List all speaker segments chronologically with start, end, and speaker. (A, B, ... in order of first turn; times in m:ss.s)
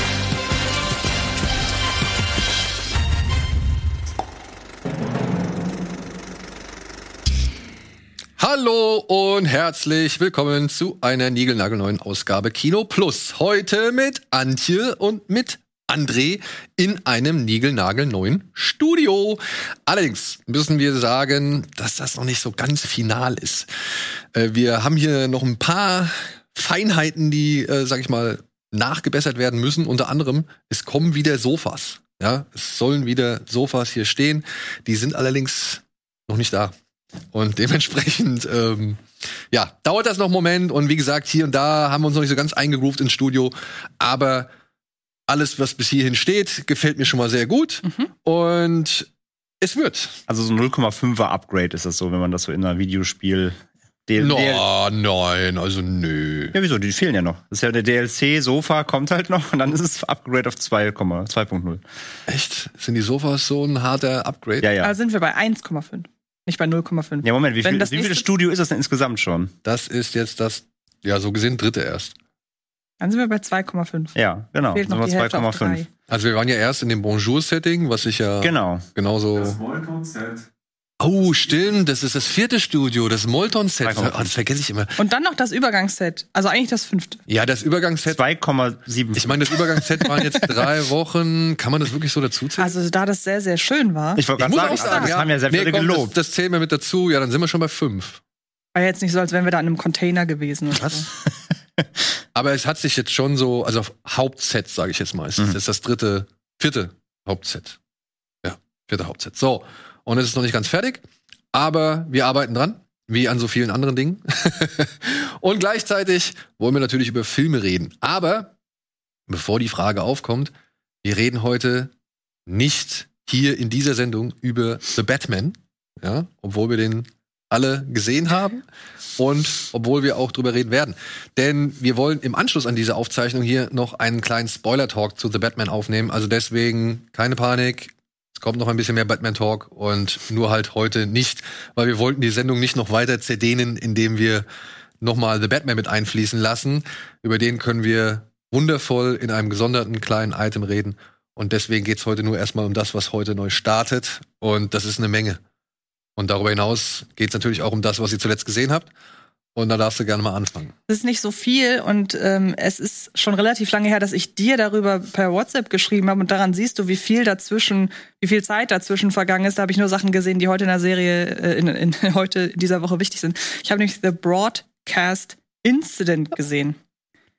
0:08.4-0:23.7 A
0:24.3-0:36.7 A
0:37.3-0:44.5 A
0:45.3-0:49.1 A
0:49.6-0:50.2 A
0:50.3-0:54.6 B
0:54.2-0:56.5 A
0:56.5-1:01.8 B
1:02.3-1:04.7 A
1:04.6-1:04.9 B
1:04.8-1:08.3 C
1:07.2-1:09.5 B
1:09.6-1:12.1 A
1:13.0-1:14.2 C
1:14.2-1:15.8 B
1:14.7-1:15.9 C
1:16.1-1:20.4 A
1:18.4-1:18.8 B
1:21.0-1:24.9 A
1:23.8-1:24.3 B
1:25.0-1:27.2 C
1:27.3-1:28.2 A
1:28.0-1:29.8 B
1:29.1-1:32.7 A
1:32.6-1:35.1 C
1:34.2-1:36.1 B
1:34.4-1:38.2 A
1:38.7-1:41.1 C
1:42.3-1:47.8 A
1:48.4-1:51.0 A
1:51.5-1:58.5 A
1:59.3-2:00.5 A
2:01.0-2:01.9 A
2:02.5-2:08.6 A
2:09.2-2:24.4 A
2:25.0-2:35.4 A
2:36.2-2:38.9 A
2:39.5-2:40.7 A
2:40.9-2:56.8 C